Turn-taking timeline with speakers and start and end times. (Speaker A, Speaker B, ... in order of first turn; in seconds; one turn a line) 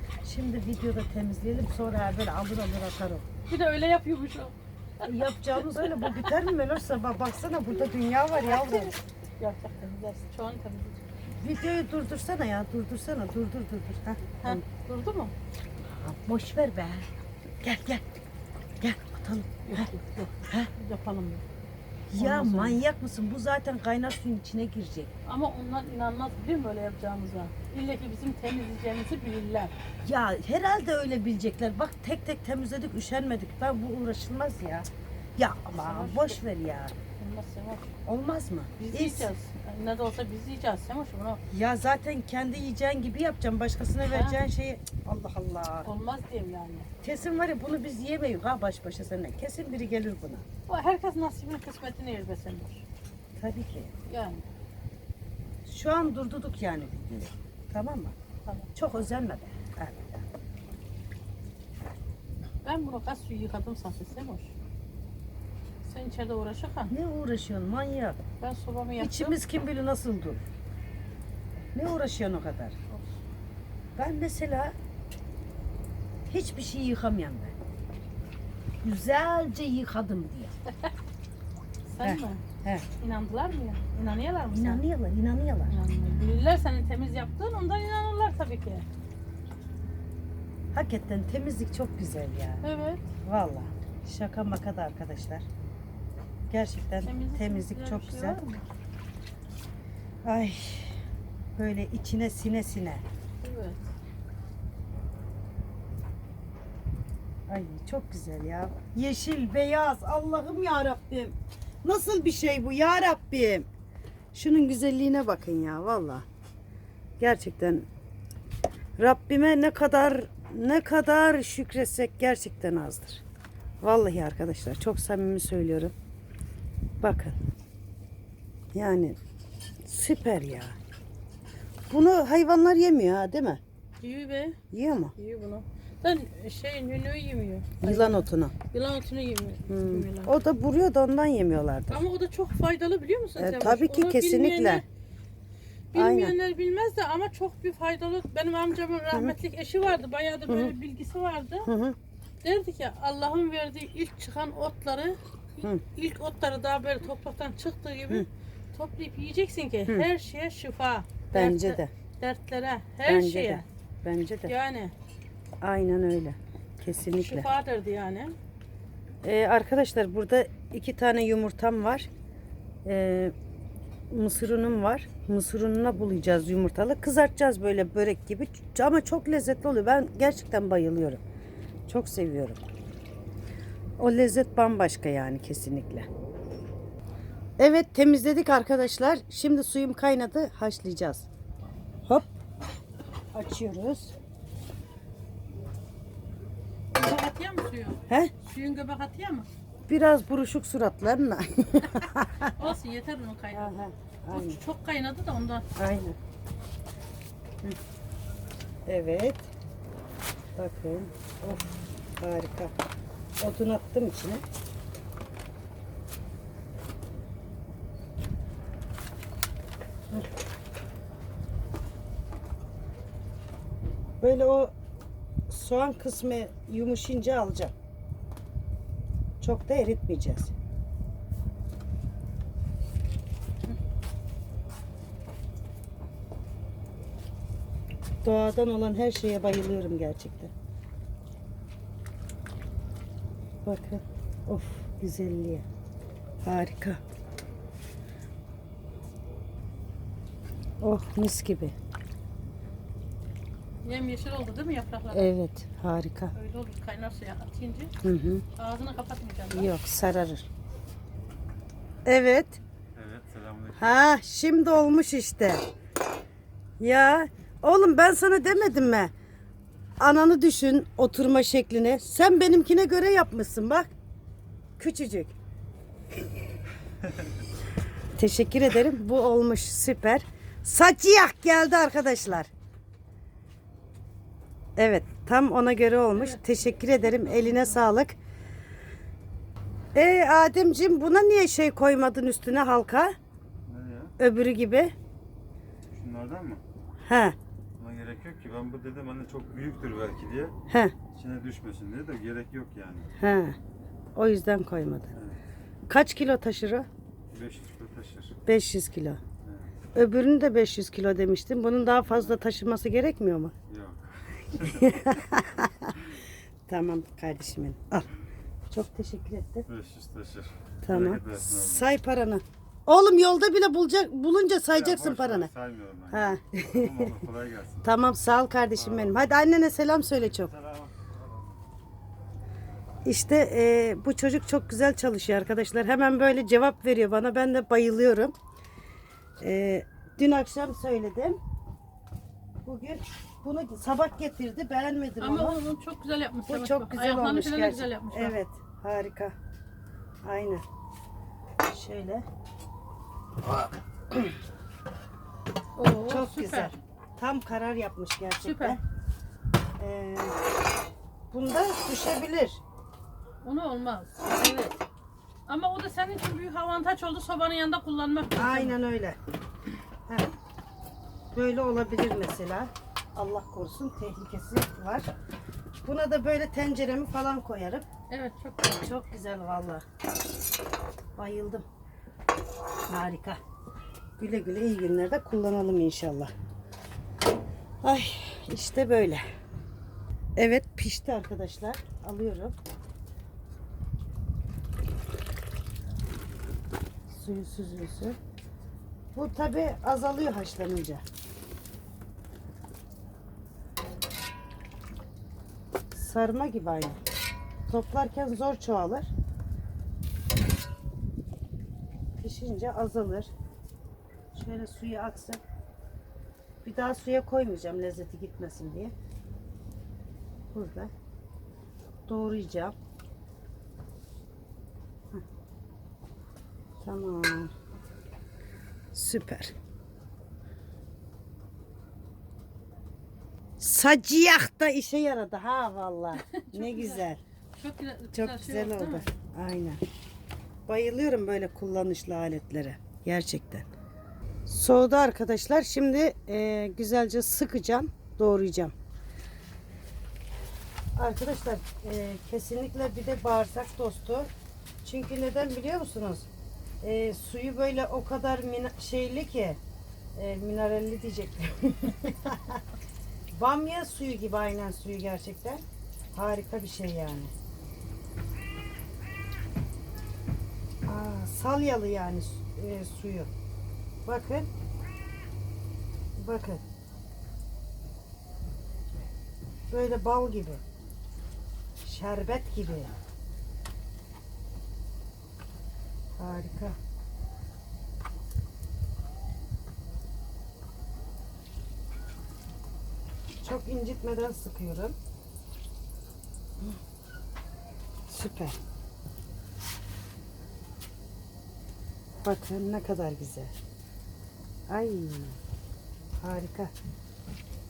Speaker A: 0.2-3.3
Speaker B: 3.5-6.4
Speaker A: 5.0-8.9
Speaker B: 8.4-11.0
Speaker A: 11.3-14.6
Speaker B: 14.4-15.3
Speaker A: 15.8-17.1
Speaker A: 17.6-18.0
Speaker A: 18.8-19.9
Speaker B: 19.6-21.4
Speaker A: 22.1-25.1
Speaker B: 22.2-22.8
Speaker B: 25.3-29.7
Speaker A: 30.0-37.0
Speaker B: 35.8-36.4
Speaker B: 37.2-37.9
Speaker A: 38.1-39.3
Speaker B: 38.8-41.4
Speaker A: 41.5-45.9
Speaker B: 44.1-44.4
Speaker B: 45.8-46.9
Speaker A: 47.0-50.5
Speaker B: 50.7-52.9
Speaker A: 53.4-53.9
Speaker B: 54.1-54.5
Speaker A: 55.7-58.1
Speaker A: 58.8-60.2
Speaker B: 62.6-64.5
Speaker B: 65.8-66.9
Speaker A: 66.9-68.2
Speaker B: 68.4-69.4
Speaker A: 69.0-70.4
Speaker A: 71.7-72.8
Speaker A: 74.0-74.8
Speaker A: 76.3-77.5
Speaker A: 78.8-80.5
Speaker B: 81.9-82.4
Speaker A: 82.0-82.9
Speaker B: 83.0-84.8
Speaker A: 84.5-85.7
Speaker B: 85.7-88.9
Speaker A: 90.7-92.6
Speaker B: 92.6-93.1
Speaker A: 93.2-95.5
Speaker A: 96.5-98.4
Speaker B: 97.0-98.7
Speaker A: 100.2-101.0
Speaker A: 101.6-103.0
Speaker B: 103.4-103.9
Speaker A: 107.5-113.7
Speaker A: 114.3-116.2
Speaker A: 117.2-117.9
Speaker A: 119.0-123.2
Speaker A: 123.8-125.9
Speaker A: 127.0-127.4
Speaker A: 128.7-129.2
Speaker A: 129.8-130.8
Speaker A: 131.9-133.6
Speaker B: 134.0-134.6
Speaker A: 134.7-135.2
Speaker B: 135.2-140.3
Speaker A: 137.8-138.5
Speaker A: 139.7-142.0
Speaker B: 141.9-144.8
Speaker A: 143.4-144.8
Speaker B: 145.9-151.7
Speaker A: 145.9-146.4
Speaker A: 150.5-150.7
Speaker A: 151.7-152.0
Speaker B: 152.4-163.7
Speaker A: 161.3-161.9
Speaker A: 163.1-164.5
Speaker B: 164.4-164.9
Speaker A: 165.6-167.5
Speaker B: 167.1-168.4
Speaker A: 169.2-172.1
Speaker A: 172.8-173.3
Speaker A: 174.1-181.2
Speaker A: 181.9-182.7
Speaker A: 184.0-186.1
Speaker A: 187.6-191.3
Speaker A: 193.3-194.1
Speaker B: 196.9-199.5
Speaker A: 199.9-202.6
Speaker B: 202.6-203.7
Speaker A: 203.5-204.6
Speaker B: 204.3-205.7
Speaker A: 205.8-206.2
Speaker A: 208.9-209.5
Speaker A: 210.6-212.8
Speaker A: 213.4-214.4
Speaker A: 224.2-224.7
Speaker A: 225.5-227.7
Speaker A: 229.4-230.5
Speaker A: 238.2-240.5
Speaker A: 243.6-245.7
Speaker A: 246.4-247.0
Speaker A: 250.8-251.8
Speaker B: 253.8-255.3
Speaker A: 255.1-256.3
Speaker B: 256.3-257.9
Speaker A: 258.0-258.4
Speaker B: 258.6-259.7
Speaker A: 259.5-260.5
Speaker A: 262.1-262.6
Speaker C: 262.9-264.0
Speaker A: 263.8-265.6
Speaker A: 266.8-269.1
Speaker A: 270.0-273.9
Speaker A: 274.8-275.4
Speaker A: 278.2-282.5
Speaker A: 284.8-288.2
Speaker B: 286.1-287.8
Speaker A: 289.9-293.1
Speaker C: 293.7-294.1
Speaker A: 294.2-294.9
Speaker C: 295.9-296.6
Speaker A: 297.1-297.4
Speaker C: 297.8-300.5
Speaker A: 300.7-300.9
Speaker C: 301.1-303.1
Speaker A: 303.2-303.6
Speaker A: 304.2-305.1
Speaker A: 305.9-306.9
Speaker C: 307.3-308.3
Speaker A: 308.5-309.2
Speaker C: 309.4-309.7
Speaker A: 309.9-313.5
Speaker C: 313.7-315.1
Speaker A: 314.6-316.0
Speaker A: 316.7-318.1
Speaker A: 318.7-319.7
Speaker C: 319.7-321.9
Speaker A: 320.8-325.5
Speaker C: 324.7-327.9
Speaker A: 326.1-327.1
Speaker A: 327.8-330.5
Speaker C: 328.7-329.2
Speaker C: 330.4-331.5
Speaker A: 333.1-338.4
Speaker A: 339.4-341.4
Speaker A: 342.6-345.6
Speaker B: 345.2-348.4
Speaker A: 346.5-349.4
Speaker A: 350.2-350.6
Speaker A: 351.7-352.2
Speaker B: 355.8-356.7
Speaker A: 356.1-358.8
Speaker B: 358.4-358.8
Speaker A: 359.8-360.4
Speaker A: 361.3-362.6
Speaker B: 363.4-364.8
Speaker B: 365.5-368.8
Speaker A: 368.4-369.2
Speaker A: 371.3-375.1
Speaker A: 375.8-377.9
Speaker B: 378.1-378.8
Speaker A: 378.7-379.8
Speaker A: 381.2-381.6
Speaker A: 382.9-383.4
Speaker A: 384.2-386.3
Speaker A: 387.8-389.2
Speaker A: 390.4-392.6
Speaker A: 397.1-398.2
Speaker A: 399.1-401.0
Speaker A: 405.9-407.0
Speaker A: 407.7-409.1
Speaker A: 412.2-413.3
Speaker A: 414.3-415.4
Speaker A: 416.6-418.9
Speaker A: 420.5-420.9
Speaker A: 422.1-422.8
Speaker A: 426.8-427.5
Speaker A: 428.9-429.5
Speaker A: 433.6-437.2
Speaker B: 436.2-439.1
Speaker A: 438.1-439.8
Speaker A: 440.7-443.7
Speaker A: 444.5-448.7
Speaker A: 451.0-454.3
Speaker A: 454.8-456.3
Speaker A: 456.8-459.6
Speaker A: 460.2-462.6
Speaker A: 463.3-465.6
Speaker A: 466.1-467.3
Speaker A: 470.9-473.3
Speaker A: 474.1-474.5
Speaker A: 476.2-476.6
Speaker A: 479.7-480.6
Speaker A: 481.8-483.0
Speaker A: 486.2-486.8
Speaker A: 493.4-495.0
Speaker A: 498.1-498.6
Speaker A: 502.2-503.6
Speaker A: 504.7-505.4
Speaker A: 506.2-506.7